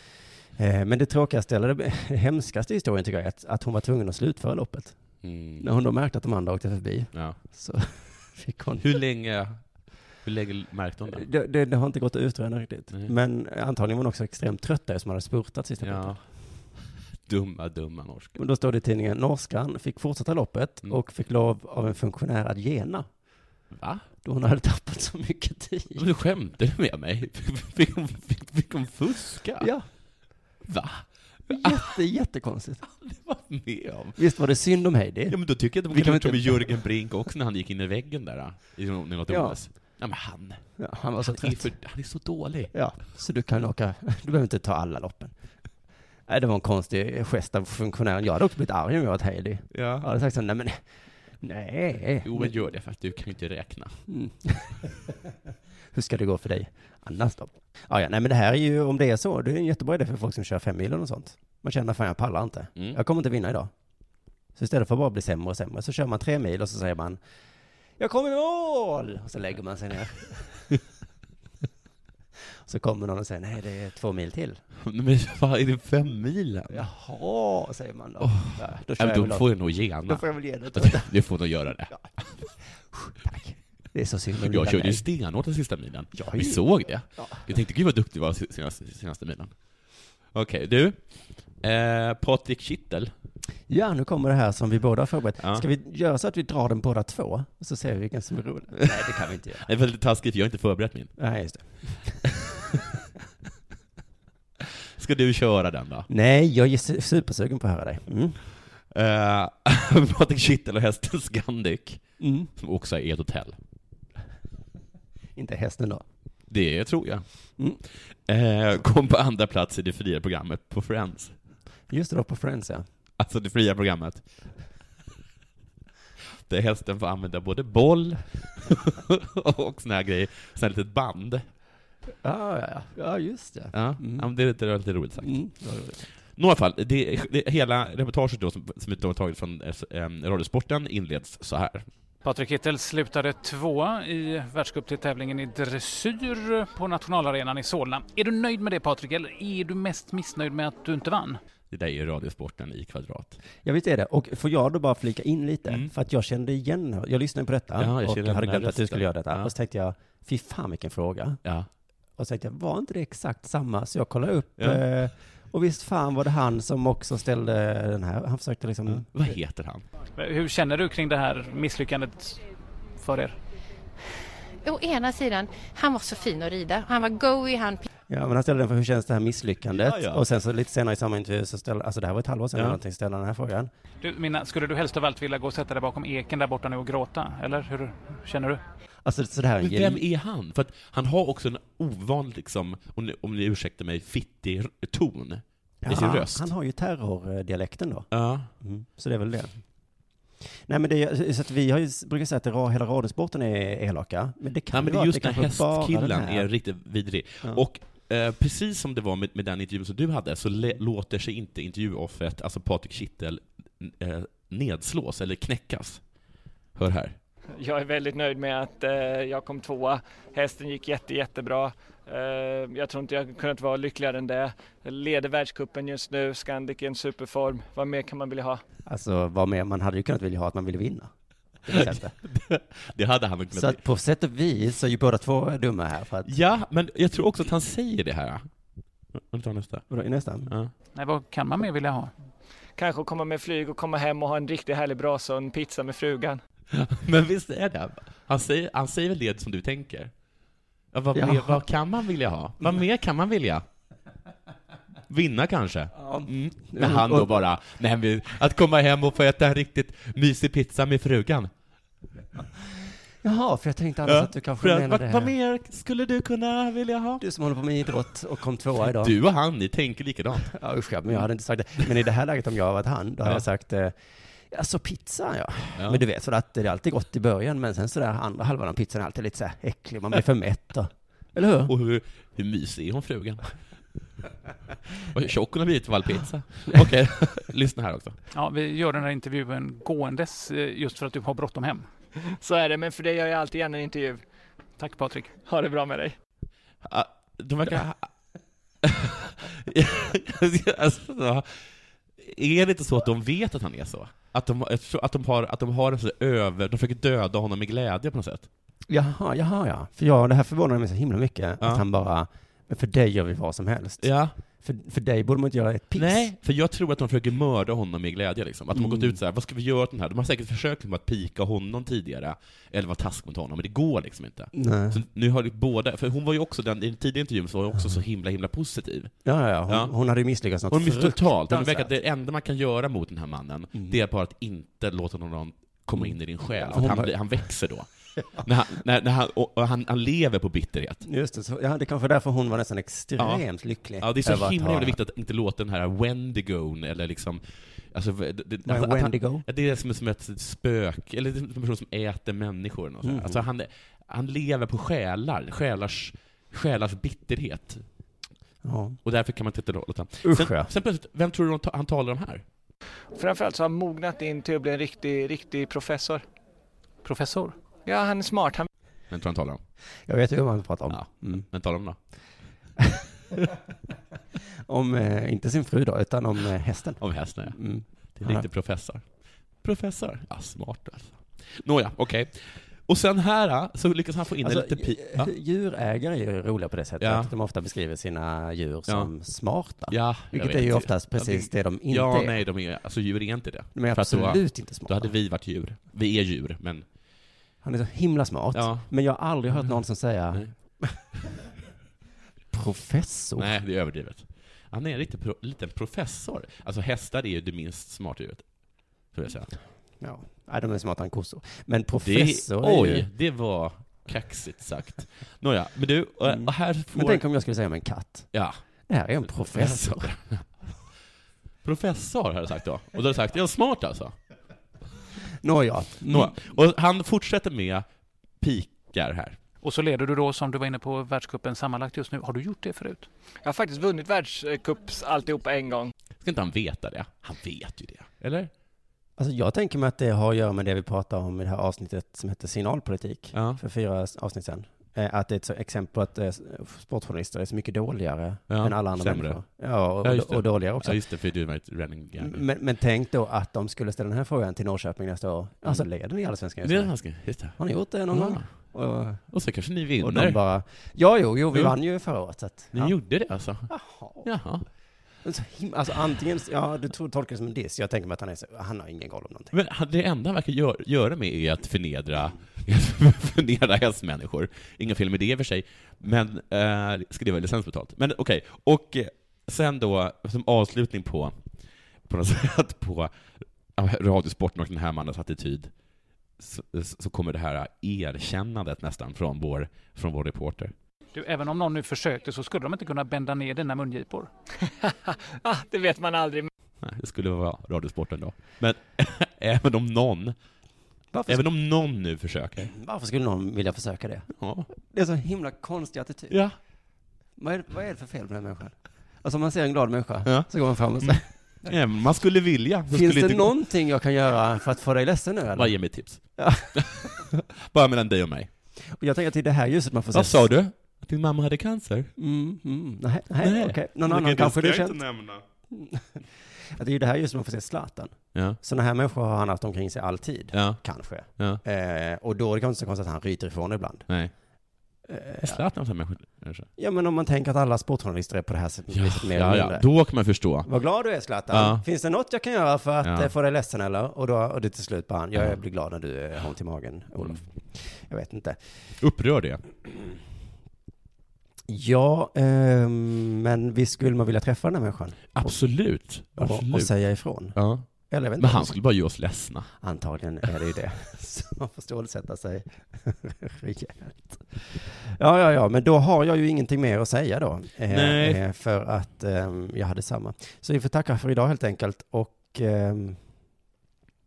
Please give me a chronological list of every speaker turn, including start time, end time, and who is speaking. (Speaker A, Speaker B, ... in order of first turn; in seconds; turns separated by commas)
Speaker A: 0.6-5.0, Speaker B: 5.2-5.7, Speaker A: 5.6-8.9, Speaker B: 7.1-7.4, Speaker B: 8.8-9.6, Speaker B: 10.2-11.3, Speaker A: 11.1-16.2, Speaker B: 15.8-16.2, Speaker B: 17.2-18.4, Speaker A: 18.4-23.1, Speaker B: 23.7-24.1, Speaker A: 24.2-26.0, Speaker B: 26.0-29.7, Speaker A: 29.6-29.9, Speaker B: 30.6-31.8, Speaker A: 31.5-32.8, Speaker B: 32.8-34.2, Speaker A: 34.2-35.4, Speaker B: 35.3-40.6, Speaker A: 35.9-36.8, Speaker A: 39.3-39.6, Speaker A: 40.8-41.7, Speaker B: 41.2-42.7, Speaker A: 42.7-45.3, Speaker A: 46.3-50.8, Speaker B: 49.7-50.1, Speaker A: 51.4-52.5, Speaker B: 52.2-54.0, Speaker A: 54.1-54.9, Speaker A: 55.9-63.7, Speaker A: 64.6-67.2, Speaker A: 68.0-70.6, Speaker A: 72.6-74.6, Speaker B: 74.8-76.9, Speaker A: 76.7-79.5, Speaker B: 78.2-82.3, Speaker A: 80.0-81.1, Speaker A: 82.9-85.0, Speaker B: 84.4-89.5, Speaker A: 86.1-86.6, Speaker A: 87.2-87.5, Speaker B: 90.3-91.1, Speaker B: 91.6-93.1, Speaker A: 93.7-99.6, Speaker B: 99.5-101.1, Speaker A: 101.2-102.3, Speaker B: 105.0-106.1, Speaker A: 106.1-108.4, Speaker B: 108.9-112.0, Speaker A: 112.2-112.5, Speaker B: 112.6-113.6, Speaker A: 115.4-116.0, Speaker B: 116.5-117.3, Speaker B: 118.3-121.3, Speaker A: 121.9-122.8, Speaker B: 123.2-124.2, Speaker B: 126.5-131.4, Speaker A: 132.2-134.3, Speaker B: 133.7-135.3, Speaker A: 135.2-136.0, Speaker B: 136.4-141.9, Speaker C: 142.2-151.4, Speaker B: 151.7-153.4, Speaker A: 153.6-161.4, Speaker B: 155.7-155.9, Speaker B: 157.8-159.5, Speaker A: 162.2-169.1, Speaker B: 168.9-169.8, Speaker C: 170.2-172.4, Speaker C: 173.0-173.4, Speaker D: 174.6-177.8, Speaker A: 178.1-183.7, Speaker B: 179.7-180.2, Speaker C: 184.0-188.6, Speaker A: 189.1-190.0, Speaker B: 189.6-196.5, Speaker A: 195.8-198.1, Speaker B: 198.1-198.5, Speaker A: 198.6-199.6, Speaker A: 200.7-206.5, Speaker B: 204.7-216.0, Speaker B: 216.8-217.2, Speaker E: 217.6-228.6, Speaker A: 228.9-231.1, Speaker A: 231.6-232.1, Speaker B: 231.7-233.8, Speaker A: 233.5-236.3, Speaker B: 236.2-238.5, Speaker B: 239.1-239.8, Speaker A: 239.9-240.5, Speaker B: 240.5-240.7, Speaker C: 240.9-242.1, Speaker E: 242.8-246.4, Speaker B: 246.7-250.1, Speaker B: 250.9-253.6, Speaker A: 251.1-251.6, Speaker B: 255.1-261.5, Speaker A: 256.0-257.3, Speaker A: 263.2-265.3, Speaker B: 264.1-267.2, Speaker A: 267.2-269.1, Speaker B: 268.8-270.5, Speaker A: 270.5-274.0, Speaker A: 274.5-281.7, Speaker B: 275.8-276.0, Speaker B: 281.6-283.5, Speaker B: 285.1-288.1, Speaker C: 288.3-291.9, Speaker E: 292.3-294.2, Speaker C: 294.8-295.4, Speaker E: 295.4-296.1, Speaker B: 296.8-298.1, Speaker B: 298.8-308.5, Speaker A: 308.9-316.3, Speaker B: 314.0-314.4, Speaker B: 315.9-329.1, Speaker A: 318.7-319.2, Speaker A: 324.5-325.0, Speaker A: 329.2-331.9, Speaker B: 330.7-341.1, Speaker A: 335.9-337.1, Speaker A: 341.1-345.0, Speaker B: 343.2-343.4, Speaker B: 344.0-357.8, Speaker A: 348.6-349.4, Speaker A: 353.0-353.4, Speaker A: 358.6-359.0, Speaker B: 359.0-362.4, Speaker A: 360.2-360.7, Speaker E: 363.1-366.2, Speaker C: 367.0-367.6, Speaker E: 367.9-368.7, Speaker B: 369.1-369.6, Speaker A: 370.1-371.4, Speaker B: 370.9-372.0, Speaker A: 374.7-378.5, Speaker B: 377.0-377.6, Speaker B: 378.1-379.0, Speaker B: 379.6-385.3, Speaker A: 384.4-392.4, Speaker B: 387.0-387.3, Speaker B: 388.9-389.1, Speaker B: 389.9-396.9, Speaker A: 393.8-395.1, Speaker A: 397.6-401.0, Speaker B: 398.5-398.9, Speaker B: 399.5-399.8, Speaker A: 402.5-403.6, Speaker B: 403.4-408.4, Speaker B: 409.1-409.5, Speaker A: 410.0-413.1, Speaker B: 412.0-417.2, Speaker A: 416.3-418.3, Speaker B: 418.3-418.6, Speaker A: 418.9-420.1, Speaker B: 419.4-420.4, Speaker B: 421.6-424.1, Speaker A: 425.4-426.4, Speaker B: 426.1-427.9, Speaker B: 428.4-429.4, Speaker C: 429.6-433.1, Speaker E: 433.4-435.9, Speaker B: 436.2-438.5, Speaker A: 439.2-451.0, Speaker B: 443.3-443.6, Speaker B: 448.5-449.4, Speaker B: 450.0-452.4, Speaker A: 452.2-457.0, Speaker B: 456.6-457.6, Speaker A: 457.6-459.3, Speaker B: 458.1-458.5, Speaker B: 459.3-460.4, Speaker A: 460.0-462.9, Speaker B: 462.7-463.7, Speaker A: 463.7-464.3, Speaker B: 464.2-464.6, Speaker A: 465.2-469.6, Speaker B: 469.5-481.4, Speaker B: 482.1-483.1, Speaker B: 483.8-485.7, Speaker B: 486.4-490.7, Speaker C: 491.1-494.3, Speaker E: 494.8-496.5, Speaker B: 496.8-500.4, Speaker A: 501.1-501.5, Speaker B: 501.3-502.7, Speaker A: 502.7-506.4, Speaker B: 504.4-504.7, Speaker B: 506.3-506.6, Speaker A: 507.4-511.3, Speaker B: 510.2-513.5, Speaker A: 512.9-515.8, Speaker B: 515.5-516.2, Speaker A: 516.4-517.1, Speaker B: 516.7-518.5, Speaker A: 518.9-520.5, Speaker B: 520.1-522.1, Speaker A: 522.2-525.0, Speaker B: 523.4-525.4, Speaker A: 525.7-526.2, Speaker A: 526.7-534.1, Speaker B: 528.3-528.6, Speaker B: 530.5-530.8, Speaker B: 531.4-531.6, Speaker B: 534.1-534.3, Speaker A: 535.1-535.6, Speaker B: 535.4-536.7, Speaker A: 536.8-539.8, Speaker B: 538.9-540.7, Speaker A: 540.6-548.6, Speaker B: 541.5-541.8, Speaker B: 543.0-543.3, Speaker B: 549.0-549.6, Speaker A: 551.7-555.5, Speaker B: 555.3-556.9, Speaker A: 556.4-557.6, Speaker B: 557.5-557.9, Speaker A: 558.1-558.8, Speaker B: 558.4-559.7, Speaker A: 559.8-573.2, Speaker B: 567.9-568.4